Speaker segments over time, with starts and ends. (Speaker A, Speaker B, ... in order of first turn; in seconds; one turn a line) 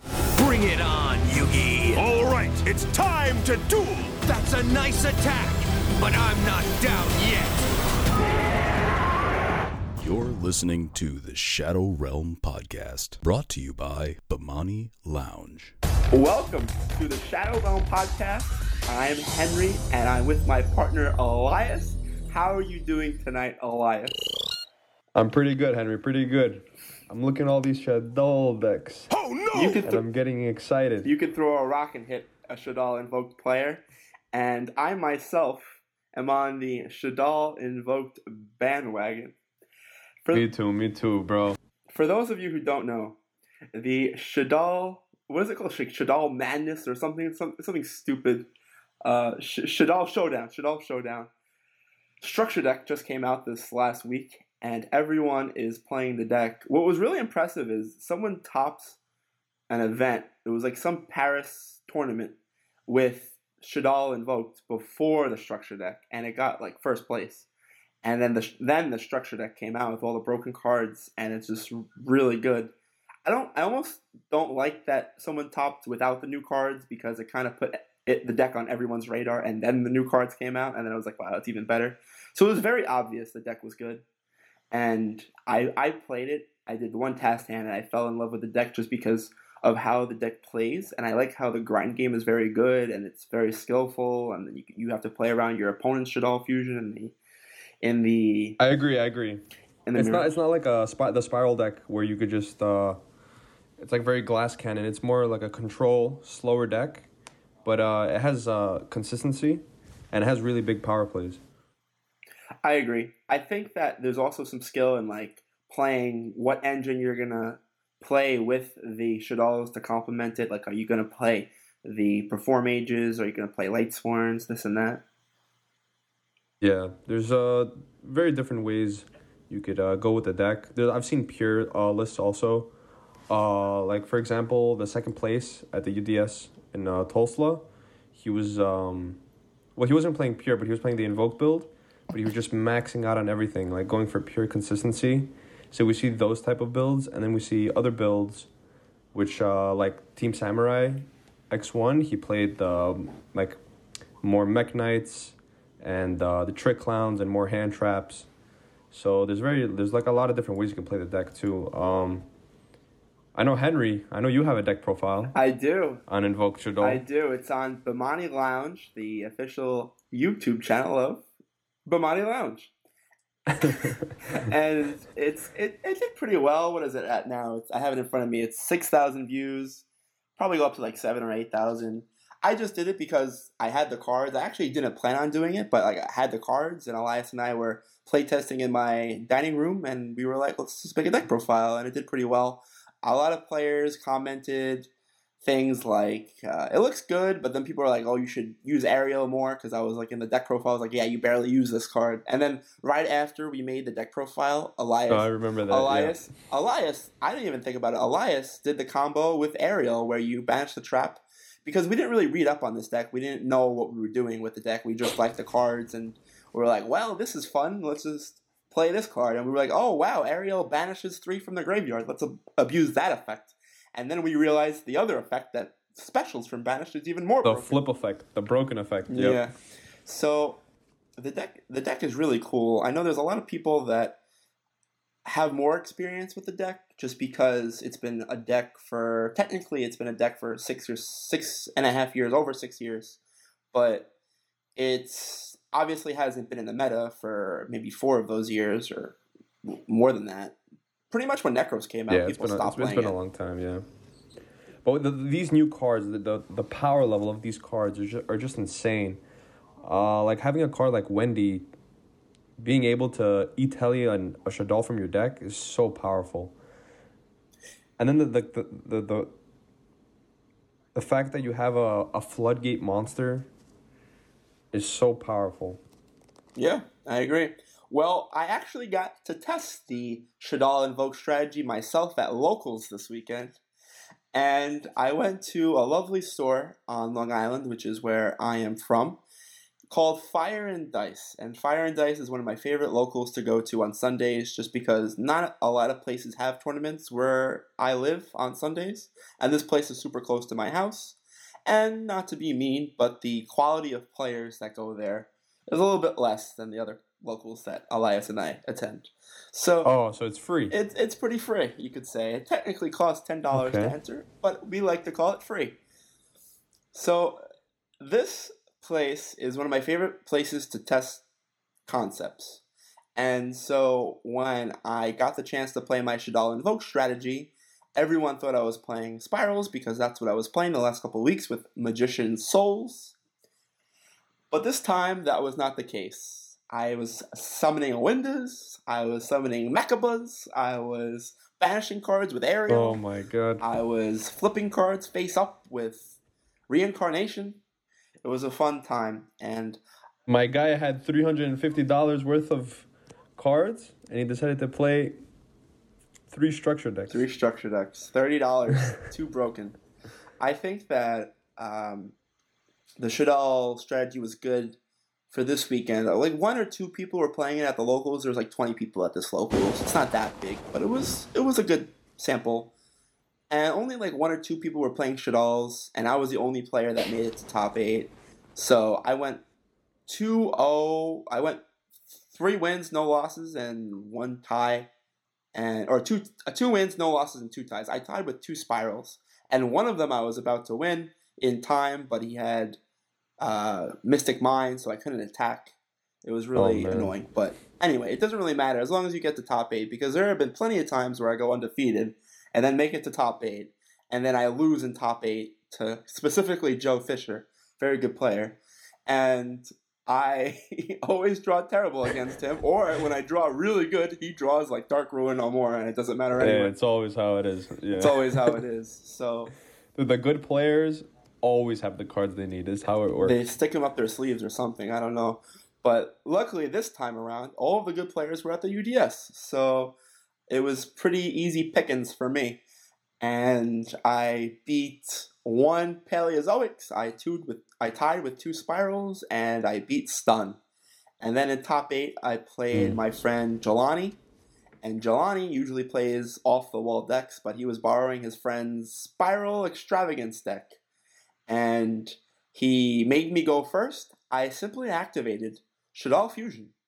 Speaker A: 0.3-7.6
Speaker B: 1.9-3.4
Speaker C: 10.0-15.7
Speaker D: 16.1-24.1
Speaker E: 25.1-29.1
Speaker B: 29.2-29.8
Speaker D: 29.5-30.0
Speaker E: 29.8-31.1
Speaker D: 31.0-39.3
Speaker E: 40.3-41.6
Speaker D: 41.9-43.1
Speaker D: 43.7-48.5
Speaker D: 49.0-51.3
Speaker D: 52.2-59.0
Speaker D: 59.7-62.3
Speaker D: 62.9-67.5
Speaker D: 68.0-72.7
Speaker D: 73.2-84.0
Speaker D: 84.7-97.1
Speaker D: 97.8-98.6
Speaker E: 98.6-99.4
Speaker D: 99.9-100.3
Speaker E: 99.9-103.0
Speaker E: 103.8-107.1
Speaker E: 107.6-111.4
Speaker D: 112.6-125.0
Speaker E: 126.6-132.7
Speaker E: 133.3-139.2
Speaker E: 139.8-148.5
Speaker E: 149.1-153.6
Speaker E: 154.2-158.3
Speaker E: 158.9-162.3
Speaker E: 163.3-165.3
Speaker D: 165.3-166.0
Speaker E: 166.1-167.0
Speaker D: 166.8-171.2
Speaker D: 171.8-172.7
Speaker E: 173.6-174.1
Speaker D: 173.6-179.8
Speaker D: 180.4-194.9
Speaker D: 195.4-227.8
Speaker E: 205.1-206.3
Speaker E: 227.4-229.4
Speaker D: 229.1-229.5
Speaker D: 230.0-230.6
Speaker D: 231.2-234.1
Speaker D: 235.2-243.2
Speaker D: 243.7-244.1
Speaker D: 244.8-250.5
Speaker D: 251.1-253.2
Speaker E: 252.1-253.8
Speaker E: 254.8-259.2
Speaker E: 259.8-261.7
Speaker E: 262.6-266.6
Speaker E: 268.0-269.3
Speaker E: 270.9-273.5
Speaker E: 274.7-275.8
Speaker D: 276.6-283.6
Speaker D: 284.3-289.2
Speaker D: 289.9-309.9
Speaker E: 309.8-310.7
Speaker D: 310.7-315.8
Speaker E: 313.5-313.9
Speaker D: 316.9-317.4
Speaker D: 318.0-321.2
Speaker D: 321.9-322.6
Speaker D: 323.1-333.1
Speaker D: 334.5-343.0
Speaker E: 342.7-343.6
Speaker D: 343.6-346.1
Speaker D: 346.7-347.6
Speaker D: 348.2-349.8
Speaker E: 350.3-355.2
Speaker E: 356.3-357.2
Speaker D: 357.1-359.8
Speaker D: 360.4-362.1
Speaker D: 363.0-364.8
Speaker D: 365.3-372.7
Speaker D: 373.5-379.4
Speaker D: 380.1-381.6
Speaker D: 382.3-384.9
Speaker D: 385.5-392.8
Speaker D: 393.4-416.7
Speaker E: 396.5-397.1
Speaker E: 416.4-418.6
Speaker D: 417.9-419.5
Speaker E: 419.9-423.4
Speaker D: 423.2-429.9
Speaker D: 430.5-432.6
Speaker D: 433.2-440.6
Speaker D: 441.2-444.2
Speaker E: 442.7-443.0
Speaker D: 444.8-450.8
Speaker D: 451.5-456.7